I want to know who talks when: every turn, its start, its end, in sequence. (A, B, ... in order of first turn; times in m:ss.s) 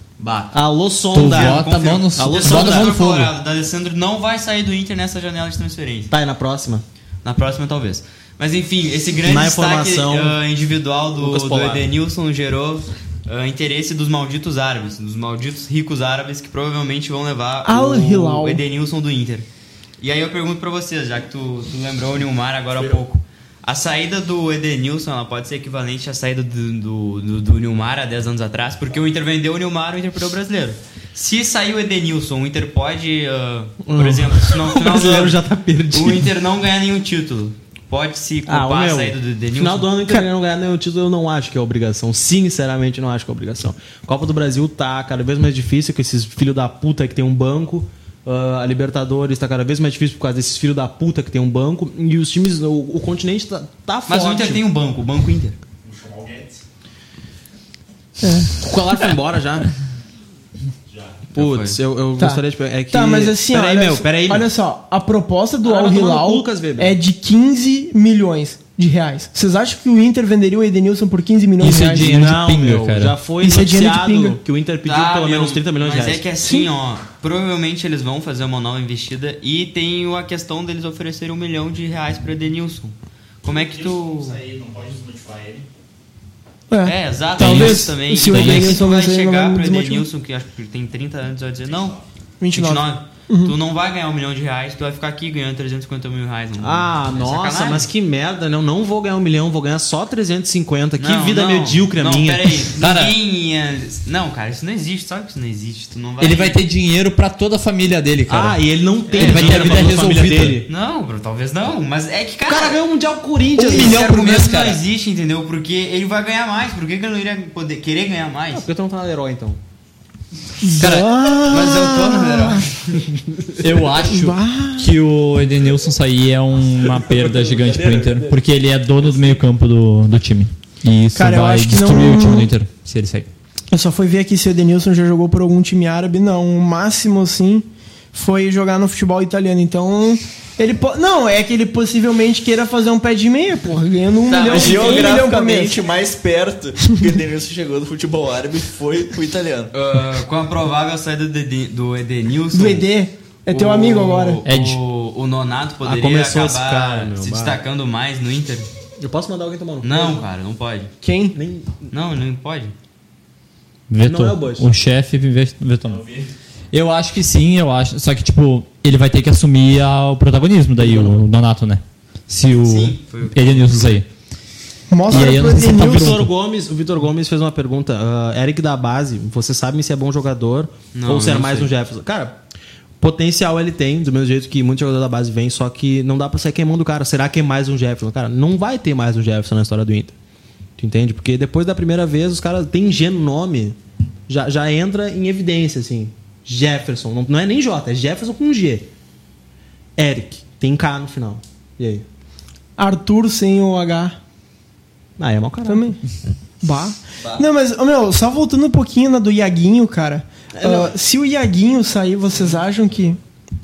0:00.2-0:00.6 A
0:00.5-0:03.0 B
0:01.1-0:03.3 C
0:01.1-0:06.1 A
0:06.1-0:06.8 B
0:07.2-0:19.5 A
0:09.2-0:10.4 B
0:11.2-0:11.9 B
0:17.6-0:18.6 D
0:20.0-0:35.4 A
0:33.8-0:36.3 B
0:35.9-0:40.2 A
0:38.5-0:54.6 B
0:54.1-0:55.6 A
0:58.2-0:58.6 D
0:58.6-0:59.7 B
1:01.3-1:04.5 B
1:01.4-1:01.8 A
1:02.2-1:12.1 D
1:05.6-1:07.0 B
1:11.6-1:13.2 C
1:12.0-1:16.3 B
1:13.4-1:14.4 D
1:14.8-1:24.5 A
1:16.4-1:16.7 D
1:26.7-1:30.1 D
1:26.8-1:32.0 A
1:27.4-1:28.8 C
1:32.4-1:33.6 D
1:32.5-1:37.9 A
1:36.6-1:42.7 B
1:41.0-1:46.6 A
1:42.8-1:43.2 C
1:46.2-1:48.6 C
1:48.3-1:50.7 B
1:49.1-1:50.1 A
1:49.2-1:50.6 C
1:50.7-1:52.8 A
1:52.5-1:54.3 B
1:53.6-1:58.7 A
1:53.6-1:54.8 C
1:58.5-1:59.6 B
2:00.6-2:02.6 D
2:00.8-2:01.1 C
2:01.4-2:03.0 A
2:03.6-2:13.3 C
2:04.0-2:04.9 D
2:07.0-2:08.4 B
2:09.0-2:09.4 B
2:11.2-2:12.5 D
2:13.7-2:25.8 D
2:24.3-2:25.2 A
2:24.5-2:29.7 E
2:29.7-2:32.9 A
2:32.5-2:34.4 D
2:33.5-2:38.7 A
2:34.4-2:34.8 C
2:35.8-2:37.6 B
2:39.0-2:40.2 B
2:39.8-2:40.9 A
2:41.0-2:41.4 D
2:41.4-2:41.9 B
2:41.9-2:42.7 A
2:43.9-2:46.1 C
2:44.0-2:44.7 B
2:46.7-2:54.1 C
2:50.8-2:51.2 B
2:52.5-2:54.0 A
2:54.9-2:56.2 D
2:55.1-2:56.3 C
2:55.3-3:02.4 B
3:00.9-3:01.8 A
3:03.0-3:10.2 B
3:10.8-3:13.8 B
3:14.3-3:18.9 B
3:20.0-3:22.0 B
3:22.8-3:24.2 D
3:25.2-3:25.9 B
3:25.6-3:26.0 D
3:26.6-3:33.2 D
3:30.5-3:30.9 B